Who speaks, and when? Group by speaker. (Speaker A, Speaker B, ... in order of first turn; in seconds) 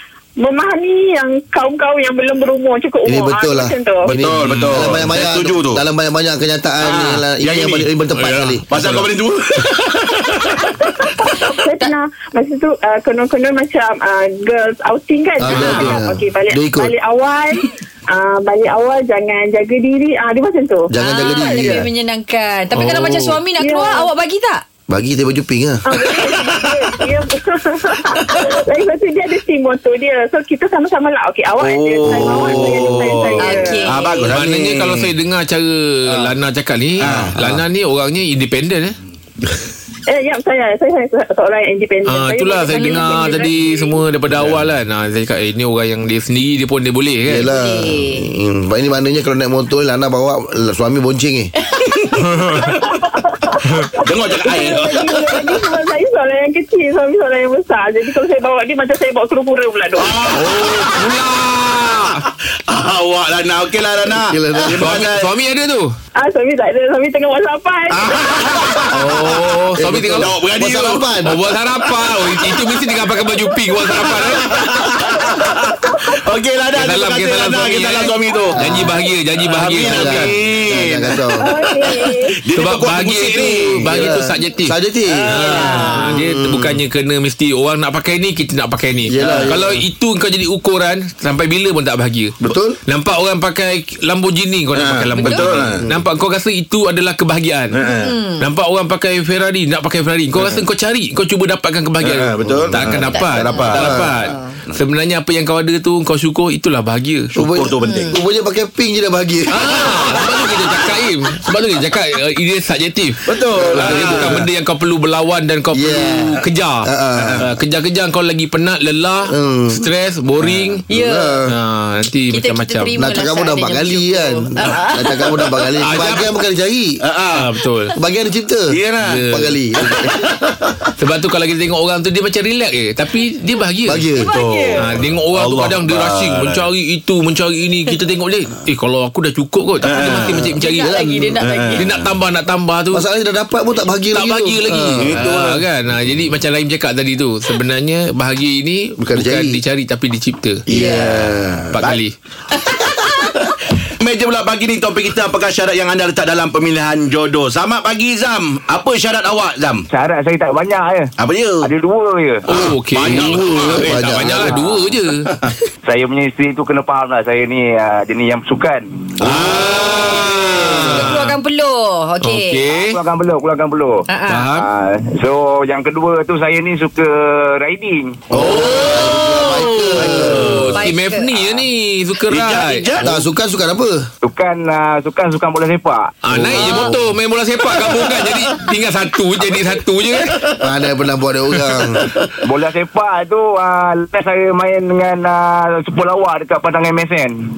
Speaker A: 0.4-4.1, 11.0-20.9, 23.6-24.1, 25.8-34.0, 40.1-44.0, 52.8-60.4, 66.2-68.8, 75.1-76.2, 81.4-82.4
Speaker B: 3.0-8.6, 15.4-16.9, 20.9-21.9, 24.9-25.8, 37.0-37.6, 47.3-51.5, 64.2-64.9, 69.0-71.3, 78.6-78.9, 79.8-81.4, 83.8-86.8, 89.1-89.8, 92.4-92.8, 102.4-103.0, 103.7-104.1, 107.3-110.0, 113.5-114.5, 115.7-117.5, 119.3-119.8, 120.9-121.5, 123.0-127.0, 128.0-128.7, 129.3-130.2, 133.8-134.3, 140.8-141.4, 142.9-145.2, 149.0-149.6, 150.7-151.7, 163.3-164.6, 178.3-180.7, 183.0-184.1, 186.5-186.8, 190.6-192.1
Speaker C: 4.1-5.8, 6.8-10.8, 26.4-26.7, 31.6-35.1, 37.0-37.4, 51.7-53.0, 54.0-55.6, 60.0-61.1, 62.2-65.3, 67.9-69.1, 70.2-71.2, 72.0-72.6, 73.9-78.9, 79.4-84.2, 89.2-89.6, 94.7-95.8, 97.7-98.2, 100.4-100.6, 102.0-104.1, 107.3-108.2, 113.2-114.5, 117.2-117.5, 120.4-120.8, 127.0-127.5, 128.7-129.3, 129.8-130.9, 134.2-136.7, 139.8-140.5, 141.4-142.0, 145.0-145.6, 152.7-159.9, 161.2-161.7, 162.5-164.4, 165.2-165.5, 169.2-170.1, 180.0-180.8, 182.3-183.2, 187.9-188.2, 190.3-190.6
Speaker D: 4.4-5.1, 8.7-9.1, 15.5-15.9, 22.7-23.4, 34.3-39.0, 42.0-47.5, 52.1-52.8, 60.3-62.2, 64.8-65.9, 68.9-70.3, 71.2-74.5, 76.7-80.3, 82.5-84.7, 85.3-97.8, 98.4-107.3, 109.5-116.9, 117.4-120.8, 121.5-123.0, 125.8-126.3, 127.3-127.9, 129.0-129.5, 131.0-134.1, 134.8-140.9, 141.7-143.0, 144.1-150.7, 151.7-152.1, 162.5-165.3, 169.2-171.4, 172.2-173.0, 174.3-174.7, 178.3-182.8, 186.2-190.4
Speaker E: 21.0-24.6, 33.4-34.2, 42.7-43.5, 47.5-48.3, 85.3-86.1, 95.2-95.5, 97.9-98.4, 103.1-103.7, 107.8-108.2, 120.9-121.4, 122.3-125.3, 134.2-134.9, 139.9-141.8, 170.9-172.6, 174.1-174.4, 180.7-181.6
Speaker F: 159.9-162.4, 165.8-168.9, 172.8-178.2, 184.2-186.8, 192.4-197.4